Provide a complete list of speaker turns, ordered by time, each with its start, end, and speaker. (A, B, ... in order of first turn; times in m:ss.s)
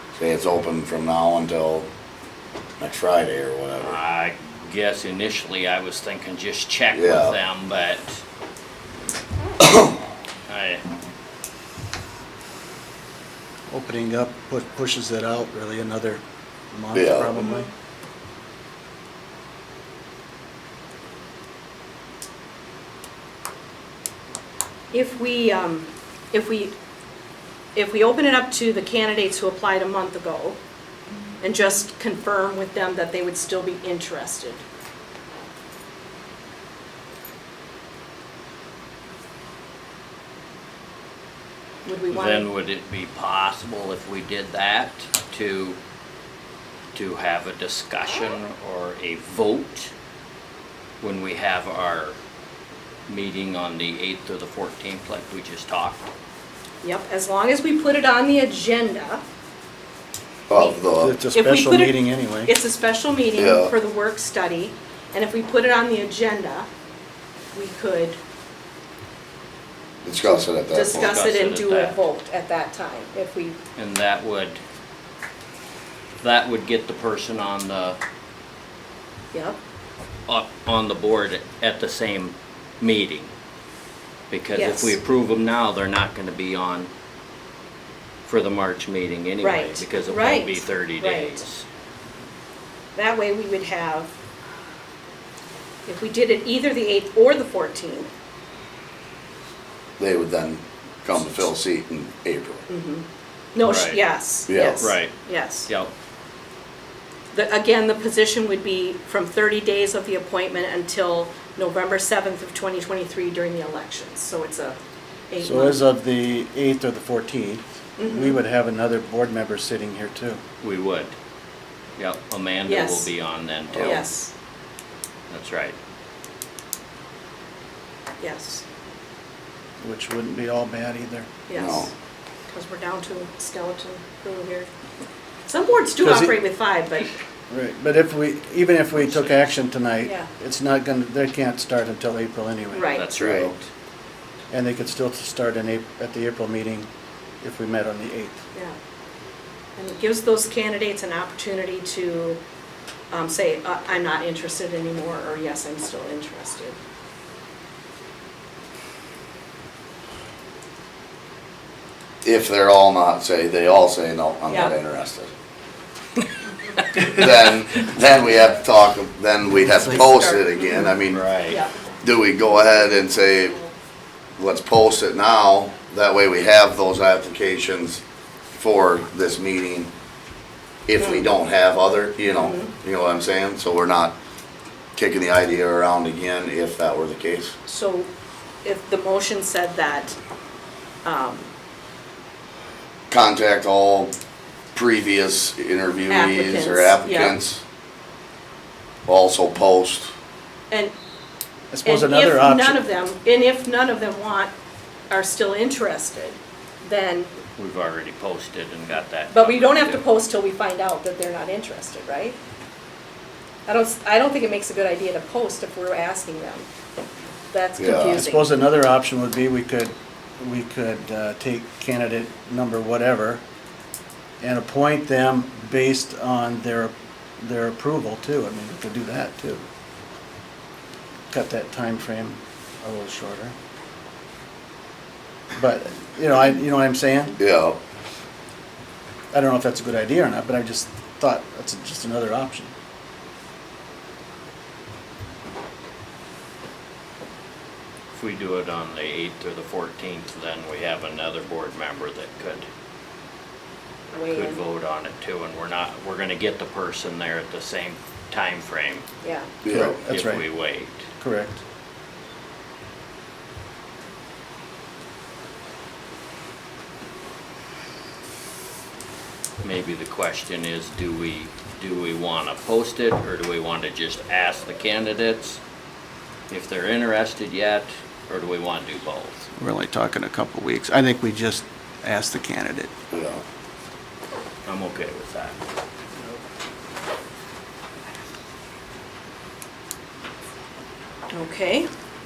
0:00.2-0:01.9 A
0:02.8-0:04.0 A
0:03.8-0:08.2 B
0:06.9-0:07.4 A
0:09.6-0:10.0 A
0:10.5-0:10.8 B
0:13.7-0:17.7 C
0:16.9-0:17.3 A
0:17.4-0:17.7 D
0:24.9-0:26.7 D
0:27.8-0:30.6 D
0:31.4-0:34.6 D
0:41.8-0:42.5 D
0:42.1-0:45.8 B
0:46.9-0:49.9 B
0:51.0-0:52.2 B
0:53.1-0:56.0 B
0:56.8-0:59.2 D
1:00.5-1:01.2 A
1:00.5-1:00.8 D
1:01.0-1:02.5 C
1:01.3-1:06.7 D
1:03.4-1:03.7 A
1:07.5-1:08.2 D
1:10.0-1:11.1 A
1:10.3-1:13.6 D
1:10.9-1:12.0 B
1:13.8-1:14.6 B
1:16.2-1:18.0 B
1:19.3-1:19.6 D
1:20.3-1:23.3 B
1:24.3-1:26.9 B
1:24.5-1:25.0 D
1:28.3-1:31.6 B
1:29.4-1:31.4 D
1:33.0-1:34.1 D
1:35.9-1:38.1 D
1:40.0-1:42.7 A
1:42.7-1:45.7 D
1:43.6-1:44.1 B
1:44.5-1:44.9 A
1:44.7-1:45.9 B
1:47.3-1:54.8 D
1:55.3-1:55.8 D
1:55.4-2:00.4 C
1:58.0-1:58.4 D
2:00.6-2:01.1 B
2:02.0-2:04.1 B
2:02.7-2:03.1 D
2:03.8-2:04.3 D
2:05.3-2:05.8 B
2:08.2-2:08.6 D
2:09.8-2:11.3 C
2:11.5-2:11.9 D
2:11.5-2:11.9 A
2:12.5-2:14.7 D
2:15.5-2:17.1 D
2:16.0-2:16.4 C
2:17.5-2:23.0 C
2:18.9-2:19.4 B
2:20.0-2:20.3 D
2:22.7-2:23.1 D
2:22.9-2:23.7 B
2:23.2-2:23.5 A
2:24.5-2:26.9 C
2:27.4-2:28.4 C
2:29.8-2:32.4 D
2:33.1-2:36.8 D
2:42.2-2:45.3 A
2:44.5-2:44.8 D
2:47.0-2:51.3 A
2:50.0-2:50.9 D
2:51.1-2:51.6 B
2:51.5-2:51.7 D
2:52.0-2:53.6 A
2:54.4-2:58.0 A
2:58.5-2:59.9 A
3:00.9-3:04.2 A
3:01.0-3:01.3 D
3:02.3-3:02.7 D
3:05.0-3:07.6 A
3:07.7-3:08.1 D
3:08.6-3:10.2 D
3:11.0-3:11.5 D
3:13.1-3:14.1 A
3:14.7-3:17.6 A
3:16.1-3:17.4 D
3:19.1-3:20.1 A
3:21.7-3:22.8 C
3:21.8-3:24.5 D
3:25.1-3:27.3 D
3:27.6-3:30.0 B
3:29.3-3:32.4 D
3:33.7-3:36.7 D
3:37.5-3:38.6 D
3:37.8-3:38.2 A
3:37.9-3:43.4 C
3:44.4-3:49.6 C
3:51.3-3:53.5 C
3:55.6-3:57.4 C
3:57.4-3:57.8 A
3:59.3-4:02.7 C
4:08.1-4:12.7 B
4:14.1-4:14.6 D
4:14.3-4:19.0 B
4:19.2-4:19.5 D
4:19.6-4:20.0 A
4:19.7-4:20.4 C
4:19.8-4:21.0 B
4:21.2-4:21.6 C
4:29.6-4:35.6 B
4:36.5-4:39.5 B
4:39.6-4:42.9 C
4:43.1-4:43.4 A
4:44.7-4:45.6 B
4:51.3-4:51.9 D